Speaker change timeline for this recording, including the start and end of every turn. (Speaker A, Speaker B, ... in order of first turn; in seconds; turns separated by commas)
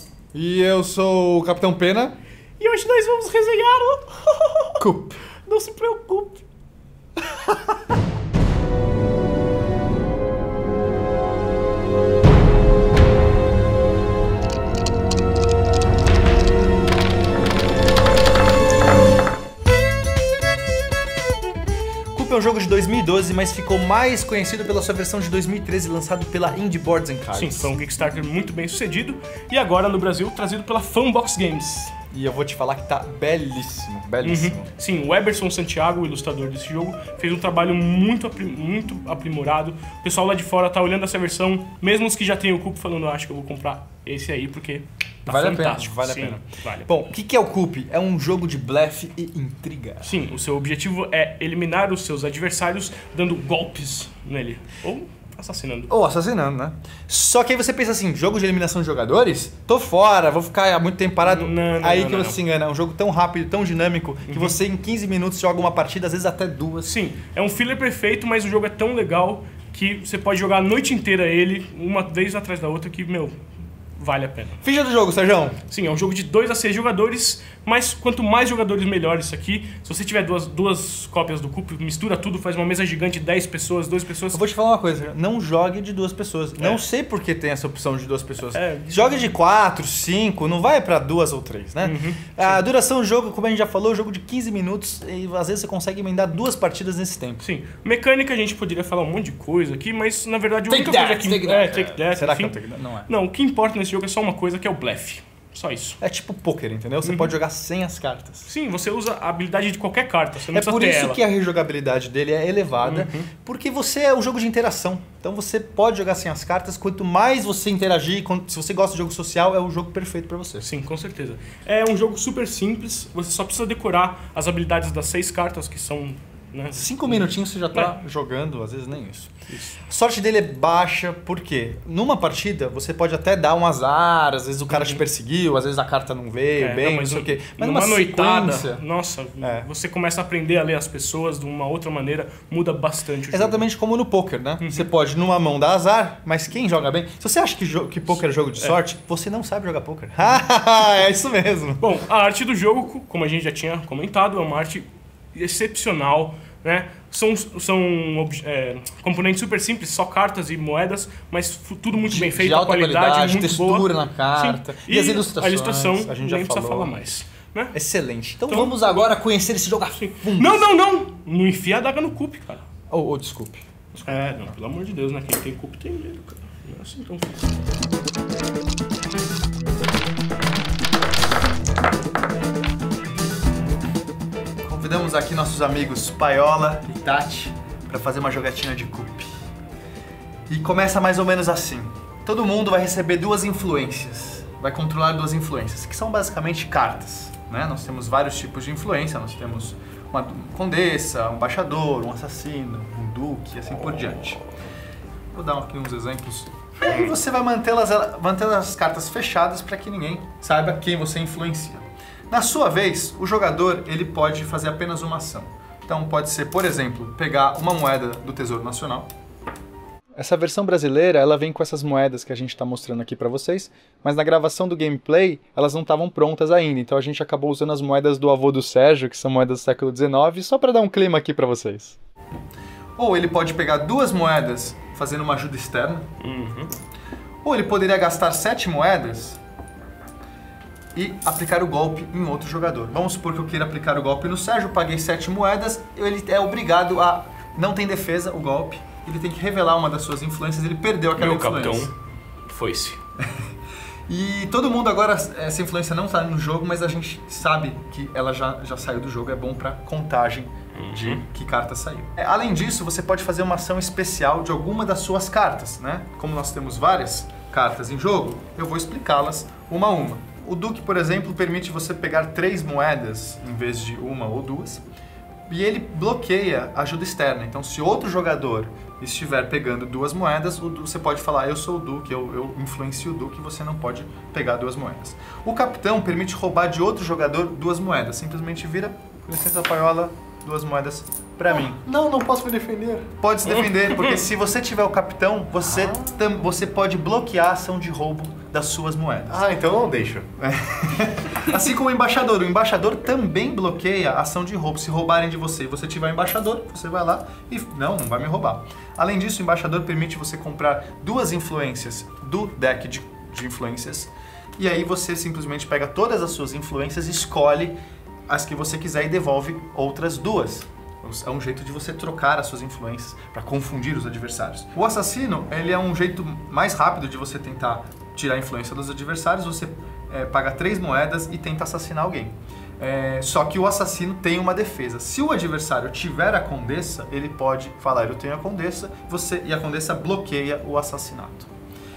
Speaker A: 0.3-2.2, Speaker B: 2.6-4.8, Speaker A: 4.8-5.2, Speaker B: 5.4-6.4, Speaker A: 7.2-7.7, Speaker A: 22.1-27.7, Speaker B: 27.3-31.9, Speaker A: 32.1-34.7, Speaker B: 34.2-46.9, Speaker A: 45.3-50.1, Speaker B: 50.0-55.9, Speaker A: 55.9-66.9, Speaker B: 61.2-62.4, Speaker B: 64.3-64.5, Speaker B: 66.8-73.4, Speaker B: 74.0-74.6, Speaker A: 74.6-75.6, Speaker B: 75.7-84.4, Speaker A: 84.3-97.4, Speaker B: 88.5-89.2, Speaker B: 91.8-92.6, Speaker B: 97.4-102.5, Speaker A: 100.7-103.1, Speaker B: 103.1-106.0, Speaker A: 106.0-108.5, Speaker B: 107.0-107.3, Speaker B: 108.5-111.2, Speaker A: 110.5-120.7, Speaker B: 112.8-113.3, Speaker B: 120.6-127.9, Speaker A: 126.7-129.3, Speaker B: 129.5-129.8, Speaker A: 129.9-138.8, Speaker B: 134.7-135.0, Speaker B: 136.6-143.6, Speaker A: 139.4-139.7, Speaker A: 143.3-151.8, Speaker B: 144.6-144.8, Speaker B: 151.8-167.7, Speaker A: 162.0-167.0, Speaker A: 167.7-170.7, Speaker B: 168.5-169.1, Speaker B: 169.9-172.7, Speaker A: 172.9-174.2, Speaker B: 174.0-177.5, Speaker A: 184.6-189.3, Speaker A: 190.5-204.4, Speaker A: 205.3-219.1, Speaker C: 206.9-207.1, Speaker A: 220.2-232.0, Speaker A: 233.0-236.1, Speaker B: 236.2-236.7, Speaker A: 237.4-239.4, Speaker A: 240.9-251.9, Speaker B: 251.2-251.9, Speaker B: 252.5-253.0, Speaker A: 254.1-274.8, Speaker B: 260.8-261.2, Speaker A: 275.5-291.9, Speaker C: 291.6-293.1, Speaker A: 293.2-299.4, Speaker B: 293.5-294.2, Speaker C: 295.6-296.2, Speaker C: 299.3-300.3, Speaker A: 300.4-341.5